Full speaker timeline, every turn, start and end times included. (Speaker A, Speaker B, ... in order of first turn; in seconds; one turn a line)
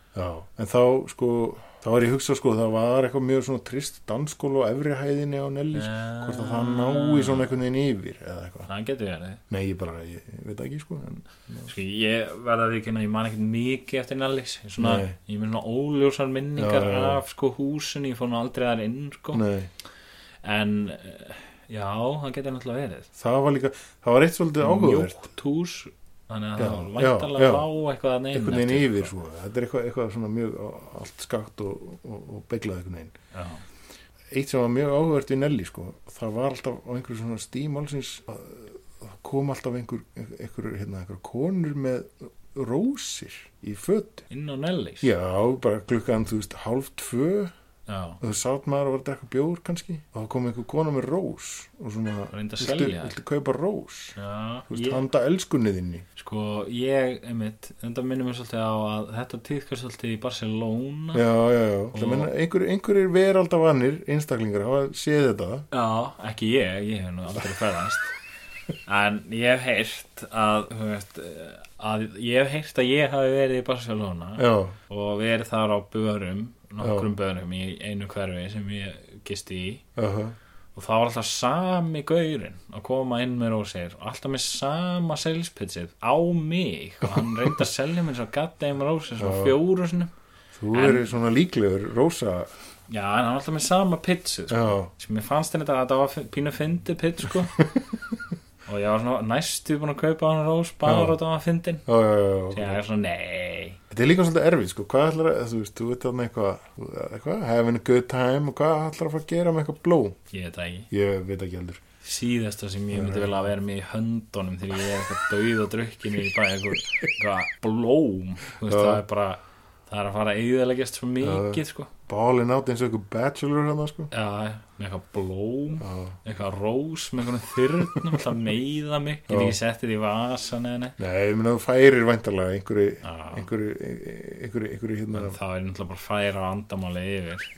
Speaker A: 0.1-8.7
Speaker B: 5.7-7.5
Speaker B: 8.7-9.4
Speaker A: 9.5-11.7
Speaker B: 11.7-19.4
Speaker A: 14.8-15.2
Speaker A: 16.6-17.2
Speaker A: 19.3-19.7
Speaker B: 20.4-23.1
Speaker A: 23.1-25.2
Speaker B: 24.6-29.1
Speaker A: 26.6-27.7
Speaker A: 28.3-33.1
Speaker B: 33.3-33.6
Speaker A: 34.3-44.2
Speaker B: 44.3-45.1
Speaker A: 45.0-47.5
Speaker B: 47.9-48.2
Speaker A: 48.2-54.2
Speaker B: 52.3-53.2
Speaker B: 54.2-55.0
Speaker A: 54.7-56.1
Speaker B: 56.2-61.2
Speaker A: 61.1-65.7
Speaker B: 61.9-62.3
Speaker B: 65.7-68.1
Speaker B: 68.9-79.8
Speaker A: 74.4-74.8
Speaker A: 76.8-77.1
Speaker A: 80.0-80.4
Speaker B: 80.8-90.1
Speaker A: 87.0-87.6
Speaker A: 89.2-89.6
Speaker A: 90.5-92.5
Speaker B: 90.7-91.1
Speaker B: 92.9-97.7
Speaker A: 94.5-94.9
Speaker B: 98.7-101.8
Speaker A: 100.8-101.2
Speaker A: 101.9-102.8
Speaker B: 102.5-103.8
Speaker A: 103.9-110.2
Speaker B: 110.3-110.9
Speaker A: 110.9-111.8
Speaker B: 112.0-121.9
Speaker A: 112.9-113.4
Speaker A: 118.7-119.0
Speaker A: 121.2-124.1
Speaker B: 124.1-131.0
Speaker A: 125.8-126.2
Speaker A: 129.3-129.6
Speaker A: 131.0-135.4
Speaker B: 133.0-133.5
Speaker B: 135.1-137.5